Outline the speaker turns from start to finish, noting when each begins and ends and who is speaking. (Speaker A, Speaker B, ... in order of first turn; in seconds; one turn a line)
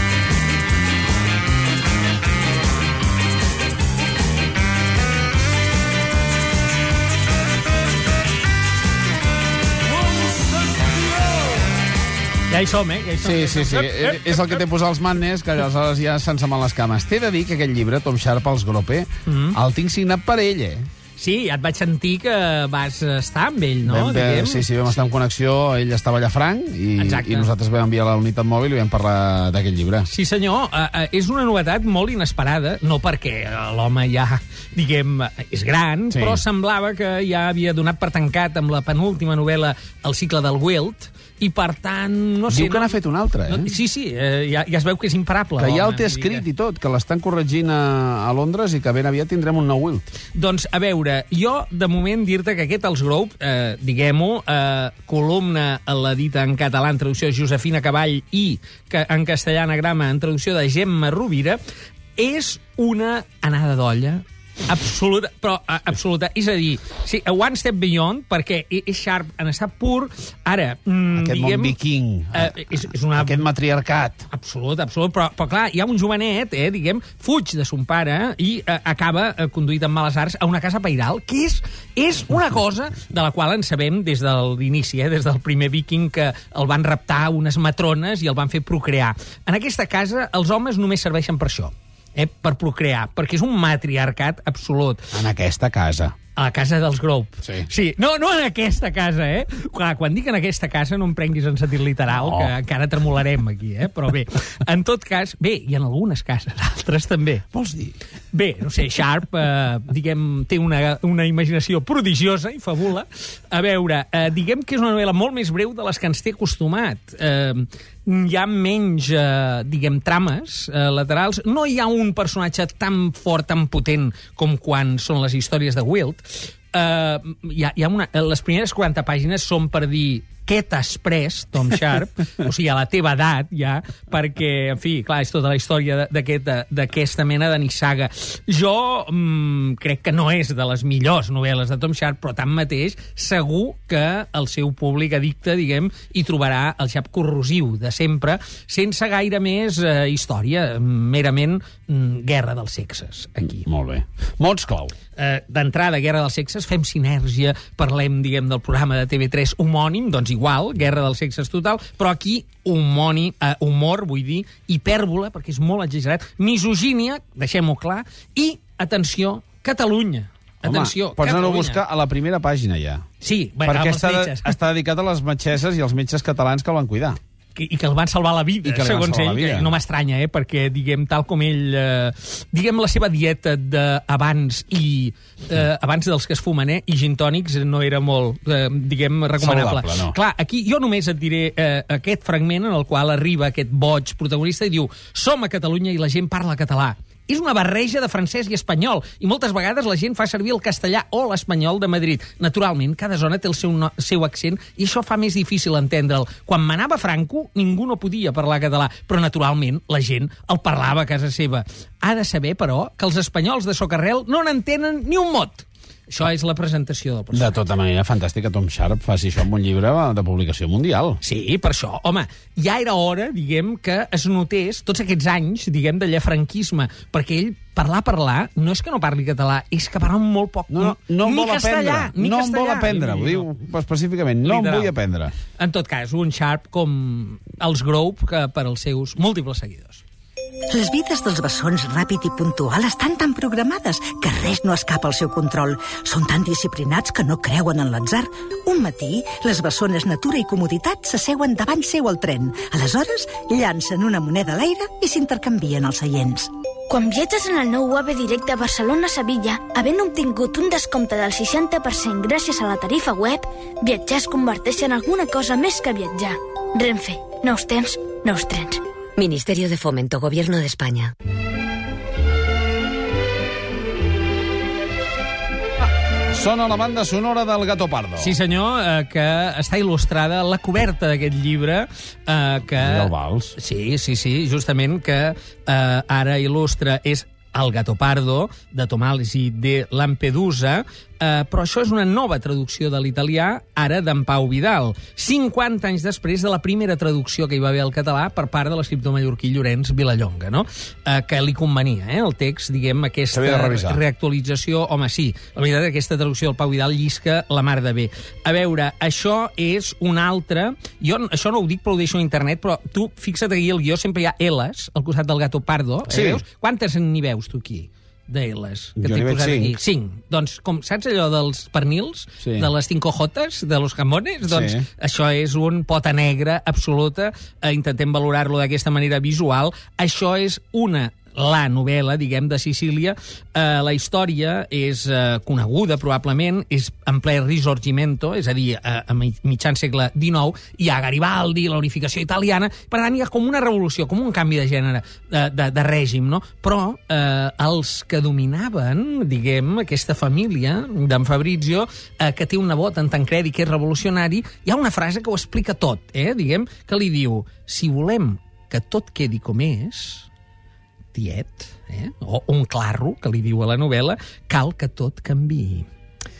Speaker A: 12.5-14.6
Speaker B: 13.2-20.9
Speaker A: 19.2-19.6
Speaker A: 21.2-25.0
Speaker B: 23.8-30.1
Speaker A: 27.0-27.5
Speaker A: 30.1-46.4
Speaker B: 36.1-36.4
Speaker B: 42.5-43.7
Speaker B: 45.5-50.0
Speaker A: 50.3-61.6
Speaker A: 62.2-71.8
Speaker B: 71.1-74.3
Speaker A: 72.3-73.5
Speaker A: 74.3-95.2
Speaker B: 95.1-96.1
Speaker A: 96.3-107.5
Speaker B: 97.4-97.7
Speaker B: 102.1-102.5
Speaker B: 107.5-108.0
Speaker A: 108.3-153.7
Speaker B: 153.7-154.9
Speaker A: 155.2-171.8
Speaker B: 170.6-173.0
Speaker A: 173.2-174.6
Speaker B: 173.6-177.2
Speaker A: 177.5-217.6
Speaker B: 178.6-179.8
Speaker B: 189.4-190.1
Speaker B: 217.3-221.2
Speaker A: 221.2-233.5
Speaker B: 230.7-235.3
Speaker A: 234.4-234.9
Speaker A: 235.6-240.0
Speaker C: 240.7-256.5
Speaker D: 256.9-268.8
Speaker E: 269.2-271.1
Speaker B: 276.3-278.3
Speaker A: 278.2-360.3
Speaker B: 282.8-283.6
Speaker B: 303.3-304.0
Speaker B: 316.1-316.4
Speaker B: 319.0-319.8
Speaker B: 322.4-322.7
Speaker B: 324.4-324.9
Speaker A: 361.1-365.9